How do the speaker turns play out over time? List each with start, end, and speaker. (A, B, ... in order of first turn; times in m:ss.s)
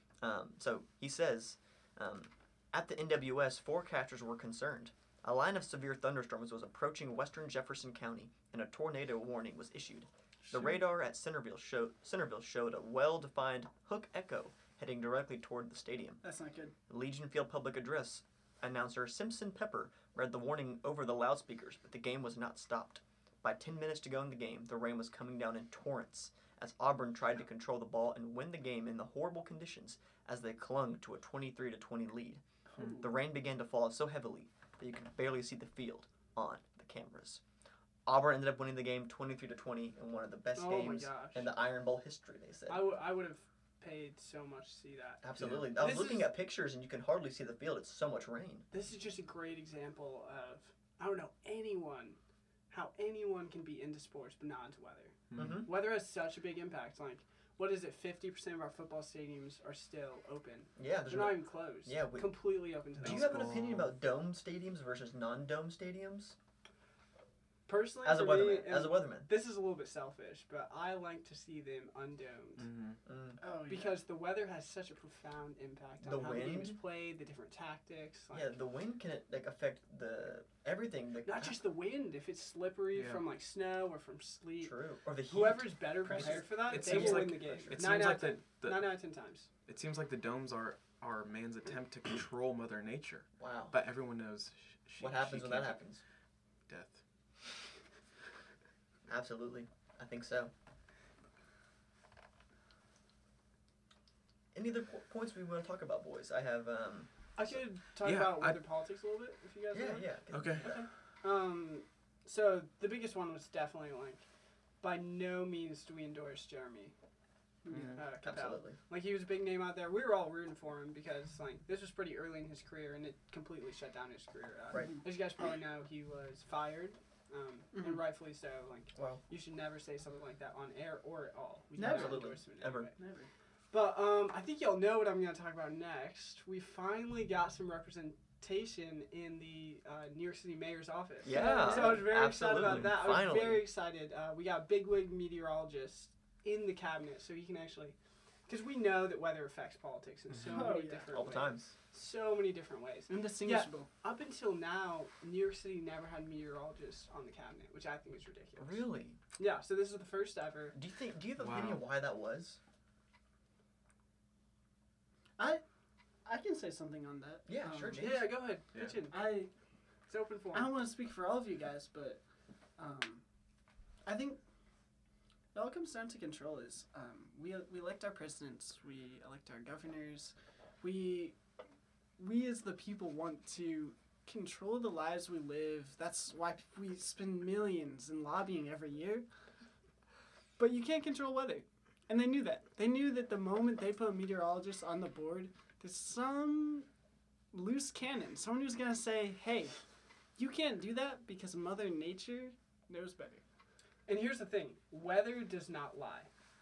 0:00.2-0:16.2 A
0:10.4-0:10.8 B
0:16.2-0:16.7 B
0:16.9-0:32.4 A
0:33.0-0:37.4 A
0:38.0-0:42.9 A
0:40.6-0:41.5 C
0:42.7-0:46.3 C
0:45.2-0:48.7 A
0:45.4-0:45.7 D
0:48.7-0:52.2 C
0:52.7-1:03.5 C
0:55.3-0:55.6 D
0:55.4-0:55.7 A
1:00.8-1:02.4 A
1:03.0-1:03.9 D
1:03.0-1:06.4 A
1:07.7-1:12.7 C
1:08.0-1:09.3 A
1:12.6-1:13.0 D
1:13.0-1:13.4 A
1:13.4-1:14.0 B
1:13.7-1:18.5 C
1:16.0-1:16.8 A
1:18.3-1:21.6 A
1:21.2-1:24.7 C
1:22.9-1:23.2 D
1:24.6-1:27.8 A
1:25.3-1:29.5 C
1:26.1-1:27.1 B
1:26.7-1:28.9 D
1:29.6-1:35.8 D
1:33.4-1:33.7 A
1:35.0-1:36.0 A
1:36.7-1:37.0 D
1:39.1-1:40.5 A
1:44.5-1:47.5 A
1:47.4-1:54.2 C
1:48.0-1:48.6 D
1:49.7-1:50.8 A
1:50.3-1:50.7 D
1:54.8-1:56.9 C
1:57.6-1:58.0 B
1:57.7-1:58.0 D
1:57.9-2:12.9 C
1:58.2-1:58.8 A
2:07.7-2:08.0 B
2:08.9-2:09.2 A
2:11.8-2:12.4 B
2:11.8-2:12.9 A
2:12.9-2:13.3 B
2:13.7-2:28.0 C
2:21.2-2:23.6 A
2:21.3-2:22.1 B
2:22.6-2:22.9 D
2:28.5-2:38.8 C
2:30.4-2:31.2 B
2:31.1-2:31.7 A
2:33.1-2:33.9 B
2:38.6-2:39.2 A
2:39.4-2:40.8 C
2:40.7-2:42.6 A
2:41.4-2:41.8 D
2:46.2-2:48.2 B
2:47.4-2:48.3 A
2:47.9-2:49.4 C
2:48.7-2:49.0 D
2:49.1-2:49.5 B
2:50.1-2:50.8 C
2:50.5-2:52.2 B
2:52.8-2:53.2 B
2:54.0-2:54.4 B
2:55.5-3:01.4 B
3:02.2-3:09.3 B
3:10.6-3:16.9 B
3:17.5-3:19.8 B
3:20.4-3:23.4 B
3:24.0-3:26.3 C